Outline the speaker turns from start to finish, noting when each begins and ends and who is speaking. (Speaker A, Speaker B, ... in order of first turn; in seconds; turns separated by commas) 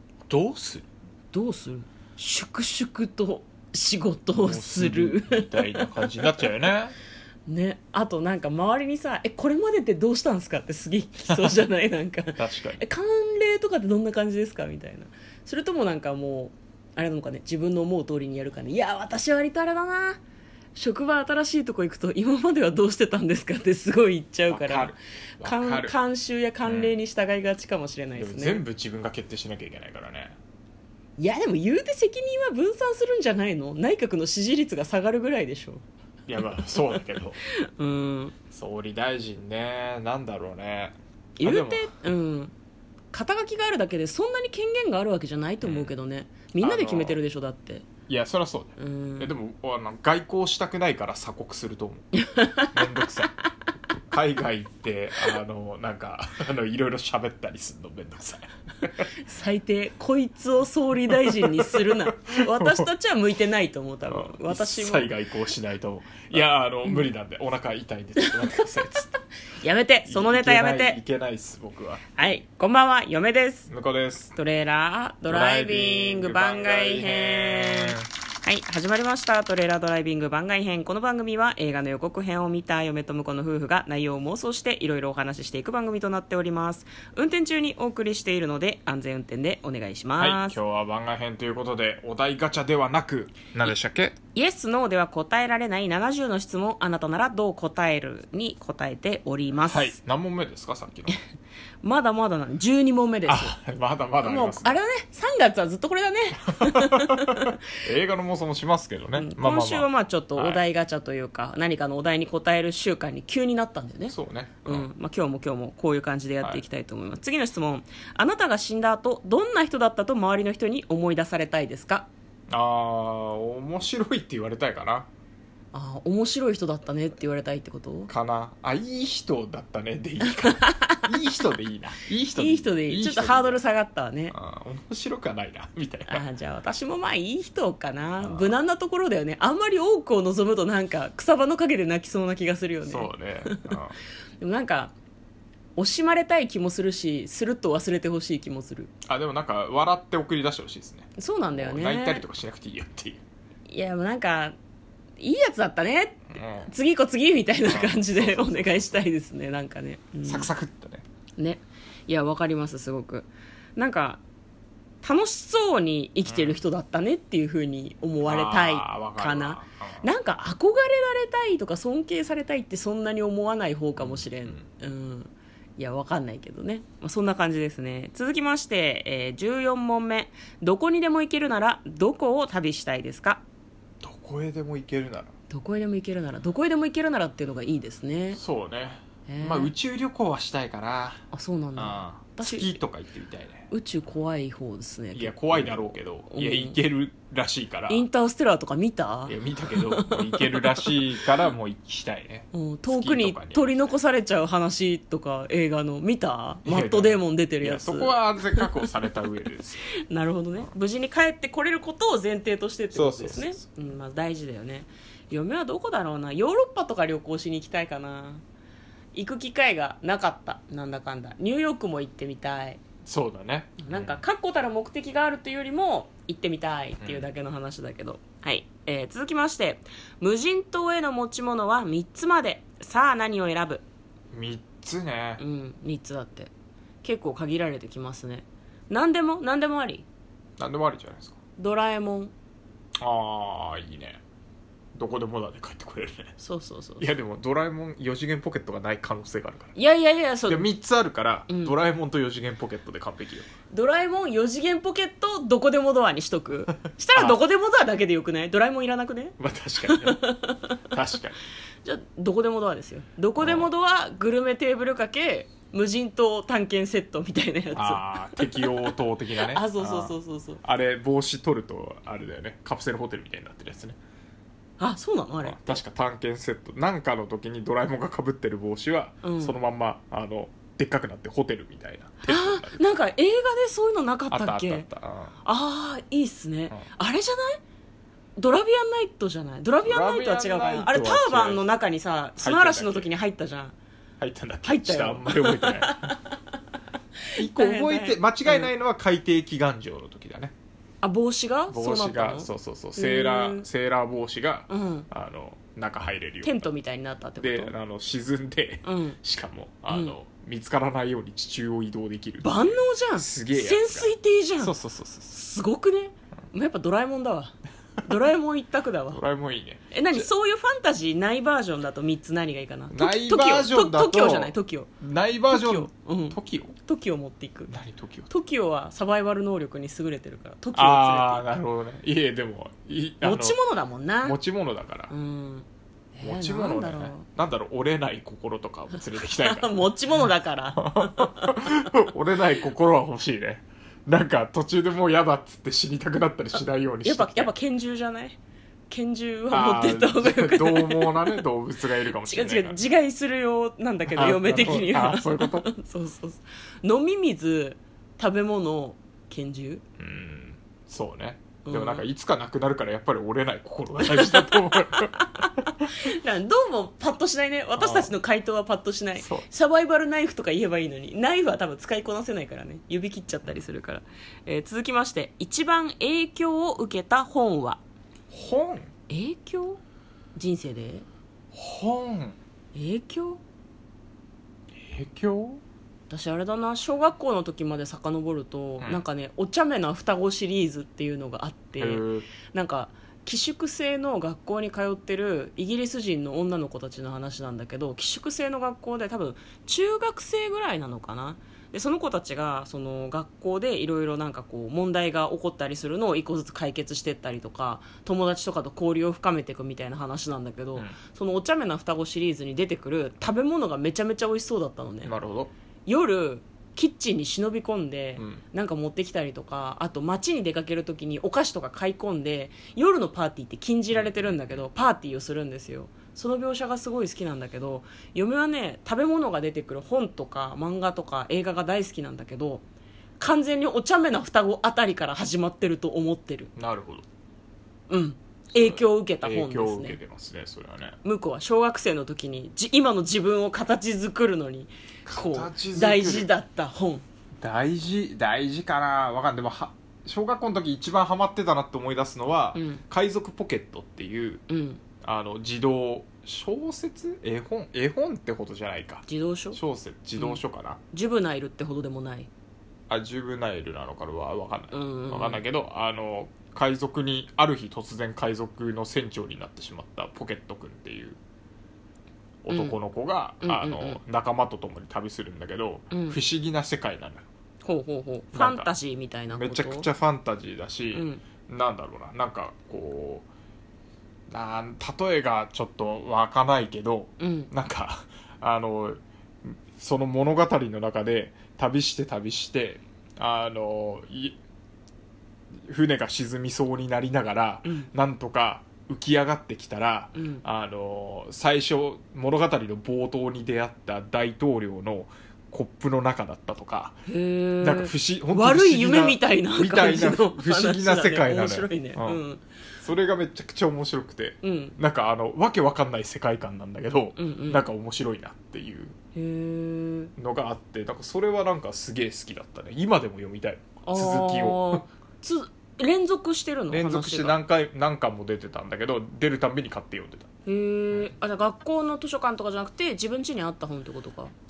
Speaker A: 0.3-0.9, Speaker B: 1.3-6.4, Speaker A: 4.3-7.0, Speaker B: 7.5-20.2, Speaker A: 12.4-12.8, Speaker B: 20.8-28.6, Speaker A: 24.5-26.0, Speaker A: 26.6-26.9, Speaker A: 28.2-30.4, Speaker B: 31.2-35.8, Speaker A: 36.3-37.4, Speaker B: 36.5-38.4, Speaker A: 38.5-41.9, Speaker B: 41.4-42.5, Speaker B: 43.1-47.9, Speaker A: 45.6-45.9, Speaker A: 46.6-47.2, Speaker A: 48.1-53.3, Speaker B: 48.8-49.4, Speaker B: 52.2-52.7, Speaker A: 54.1-59.1, Speaker B: 59.2-65.1, Speaker A: 61.2-62.9, Speaker A: 64.1-69.1, Speaker B: 68.2-71.0, Speaker A: 70.0-72.0, Speaker B: 72.2-73.7, Speaker A: 73.7-74.3, Speaker B: 74.3-90.6, Speaker A: 75.3-78.1, Speaker A: 90.2-94.2, Speaker B: 94.3-100.0, Speaker A: 99.7-101.2, Speaker B: 101.8-103.6, Speaker A: 103.3-104.8, Speaker B: 104.2-107.5, Speaker A: 106.6-110.6, Speaker B: 109.2-114.1, Speaker A: 114.1-114.9, Speaker B: 114.7-122.1, Speaker A: 122.5-125.1, Speaker B: 125.7-128.1, Speaker A: 128.1-133.6, Speaker B: 130.2-131.1, Speaker B: 132.4-134.3, Speaker A: 134.3-136.2, Speaker B: 136.1-143.8, Speaker A: 138.2-138.5, Speaker A: 142.9-144.0, Speaker B: 144.4-144.9, Speaker B: 145.8-148.9, Speaker A: 149.1-153.2, Speaker B: 151.2-152.2, Speaker B: 153.7-154.6, Speaker B: 155.2-160.5, Speaker A: 156.3-156.7, Speaker A: 157.6-159.1, Speaker A: 160.3-161.1, Speaker B: 161.4-164.2, Speaker B: 165.0-183.4, Speaker A: 166.2-166.6, Speaker A: 168.2-170.1, Speaker A: 174.0-174.7, Speaker A: 184.0-185.3, Speaker B: 185.5-188.4, Speaker A: 188.3-191.2, Speaker B: 189.3-189.7, Speaker B: 191.3-192.7, Speaker A: 191.8-193.7, Speaker B: 193.7-196.8, Speaker A: 195.1-198.1, Speaker B: 197.9-201.0, Speaker A: 199.3-203.9, Speaker B: 202.5-208.9, Speaker A: 206.7-209.9, Speaker B: 210.0-218.4, Speaker A: 212.9-213.6, Speaker B: 219.1-222.8, Speaker A: 223.1-224.2, Speaker B: 223.8-233.8, Speaker A: 227.0-227.3, Speaker A: 234.3-235.4, Speaker B: 235.4-236.5, Speaker B: 237.0-240.1, Speaker A: 240.6-241.4, Speaker B: 241.6-242.3, Speaker A: 243.0-244.2, Speaker A: 244.9-246.3, Speaker B: 246.4-247.1, Speaker A: 247.0-249.8, Speaker B: 249.8-250.7, Speaker A: 250.5-253.5, Speaker B: 251.5-251.8, Speaker B: 253.7-260.9, Speaker A: 257.1-257.4, Speaker A: 259.4-260.2, Speaker A: 260.9-261.4, Speaker B: 261.8-270.6, Speaker A: 263.4-263.7, Speaker A: 267.8-274.0, Speaker B: 274.8-275.8, Speaker A: 275.4-283.0, Speaker B: 279.2-279.6, Speaker B: 282.3-284.9, Speaker A: 284.3-285.4, Speaker B: 285.4-287.6, Speaker B: 288.4-293.7, Speaker A: 289.8-291.6, Speaker A: 292.4-293.1, Speaker A: 294.2-296.1, Speaker B: 294.6-296.4, Speaker B: 297.3-298.7, Speaker A: 297.4-300.5, Speaker B: 301.0-303.7, Speaker A: 301.7-306.7, Speaker B: 304.7-305.1, Speaker B: 306.4-307.7, Speaker A: 307.4-315.3, Speaker B: 308.8-309.2, Speaker B: 309.9-310.1, Speaker B: 312.4-314.7, Speaker B: 315.3-319.2, Speaker A: 319.1-320.3, Speaker B: 319.9-324.9, Speaker A: 322.9-326.8, Speaker B: 325.5-327.7, Speaker A: 327.7-328.3, Speaker B: 328.3-331.6, Speaker A: 330.7-333.6, Speaker B: 333.2-334.4, Speaker A: 334.2-335.1, Speaker B: 335.1-337.2, Speaker A: 336.2-339.9, Speaker B: 339.1-341.5, Speaker A: 340.8-347.5, Speaker B: 347.0-348.4, Speaker B: 348.9-351.4, Speaker A: 349.5-352.8, Speaker B: 352.1-359.8, Speaker A: 354.1-355.7, Speaker A: 360.0-365.9, Speaker B: 361.6-362.1, Speaker B: 364.1-377.8, Speaker A: 367.8-368.1, Speaker A: 369.2-369.5, Speaker A: 378.3-378.9, Speaker B: 379.1-379.8, Speaker B: 380.4-381.1, Speaker A: 381.5-382.4, Speaker B: 382.7-383.4, Speaker A: 384.8-385.6, Speaker B: 386.1-415.1, Speaker A: 391.8-392.3, Speaker A: 415.0-415.5, Speaker B: 415.9-432.6, Speaker A: 423.9-424.6, Speaker B: 433.2-436.5, Speaker A: 436.6-437.1, Speaker B: 437.9-440.0, Speaker A: 438.5-441.0, Speaker B: 441.0-447.0, Speaker A: 445.1-446.3, Speaker A: 447.4-454.4, Speaker B: 452.5-452.8, Speaker B: 454.5-454.8, Speaker A: 455.0-460.8, Speaker B: 459.1-459.6, Speaker B: 460.9-462.3, Speaker A: 462.9-471.2, Speaker B: 464.7-465.4, Speaker A: 472.4-477.2, Speaker B: 472.5-472.8, Speaker B: 473.4-474.0, Speaker B: 475.9-476.2, Speaker B: 477.6-479.9, Speaker A: 478.3-478.7, Speaker A: 479.3-483.3, Speaker B: 480.9-481.2, Speaker A: 484.3-494.4, Speaker B: 487.2-487.5, Speaker A: 495.7-507.0, Speaker B: 497.6-497.9, Speaker B: 500.1-500.4, Speaker B: 507.1-512.4, Speaker A: 507.6-512.2, Speaker A: 512.8-519.0, Speaker B: 514.4-514.8, Speaker B: 517.2-517.6, Speaker B: 519.1-520.1, Speaker A: 520.2-524.8, Speaker B: 523.8-527.4, Speaker A: 526.7-530.3, Speaker B: 530.5-534.3